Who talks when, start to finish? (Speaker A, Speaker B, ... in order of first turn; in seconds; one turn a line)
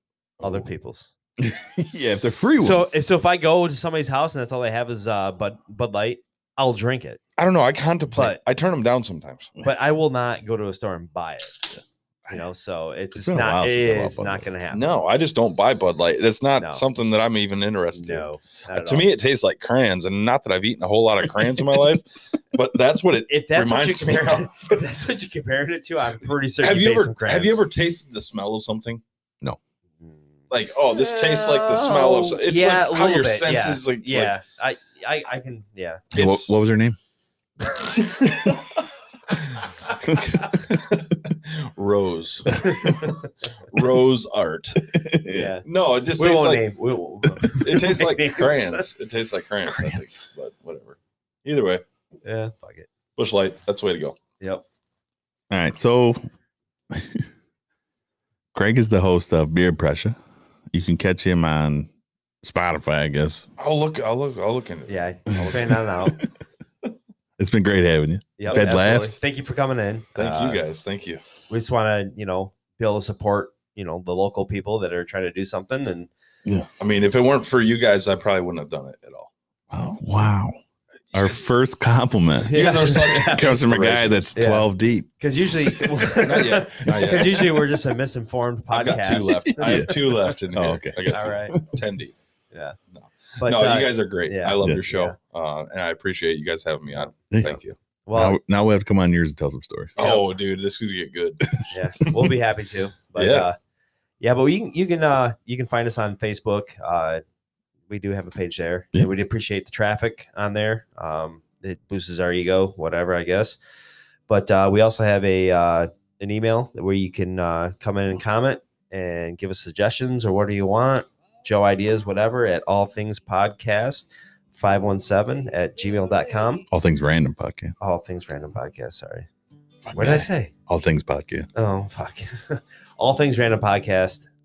Speaker A: 0.4-1.1
Speaker B: 1.4-3.0
Speaker A: 2.6-7.2
Speaker C: 7.4-9.5
Speaker A: 8.2-8.4
Speaker A: 9.6-11.6
Speaker A: 12.3-14.8
Speaker B: 13.1-14.5
Speaker C: 14.7-24.8
Speaker A: 16.6-16.9
Speaker A: 17.9-19.1
Speaker A: 23.3-27.6
Speaker C: 26.6-29.0
Speaker A: 30.0-36.1
Speaker C: 30.5-34.4
Speaker C: 36.1-36.5
Speaker B: 36.1-37.0
Speaker C: 37.7-38.8
Speaker C: 39.4-43.2
Speaker B: 40.1-40.4
Speaker A: 42.5-43.3
Speaker B: 42.6-43.0
Speaker C: 43.7-44.9
Speaker B: 44.8-45.5
Speaker A: 45.3-45.6
Speaker C: 45.6-46.7
Speaker A: 46.2-48.9
Speaker C: 47.4-51.8
Speaker B: 49.7-50.1
Speaker A: 52.2-52.9
Speaker C: 53.2-54.2
Speaker B: 55.5-56.2
Speaker B: 56.9-57.3
Speaker B: 58.5-60.2
Speaker B: 60.7-61.9
Speaker B: 62.4-63.5
Speaker C: 63.6-65.8
Speaker A: 64.9-66.2
Speaker B: 65.3-66.3
Speaker B: 67.4-69.2
Speaker A: 68.4-70.7
Speaker C: 70.2-71.2
Speaker A: 71.5-76.1
Speaker C: 76.8-79.3
Speaker B: 79.7-80.6
Speaker B: 81.1-86.0
Speaker A: 82.4-83.5
Speaker C: 82.5-84.3
Speaker A: 84.3-84.7
Speaker A: 85.2-89.9
Speaker C: 86.2-87.6
Speaker C: 88.7-92.1
Speaker B: 89.3-91.7
Speaker A: 91.1-91.6
Speaker A: 92.5-92.8
Speaker C: 92.9-97.7
Speaker A: 93.4-95.2
Speaker B: 94.6-94.9
Speaker A: 96.9-97.5
Speaker B: 97.3-97.6
Speaker A: 98.1-98.4
Speaker B: 98.1-100.0
Speaker A: 100.0-100.2
Speaker C: 100.0-101.6
Speaker B: 101.5-102.2
Speaker A: 101.7-103.5
Speaker C: 103.2-103.5
Speaker A: 104.2-107.2
Speaker A: 107.9-113.6
Speaker A: 114.3-126.7
Speaker B: 126.7-127.7
Speaker A: 127.8-129.3
Speaker B: 129.8-131.5
Speaker A: 129.9-130.5
Speaker A: 131.6-134.3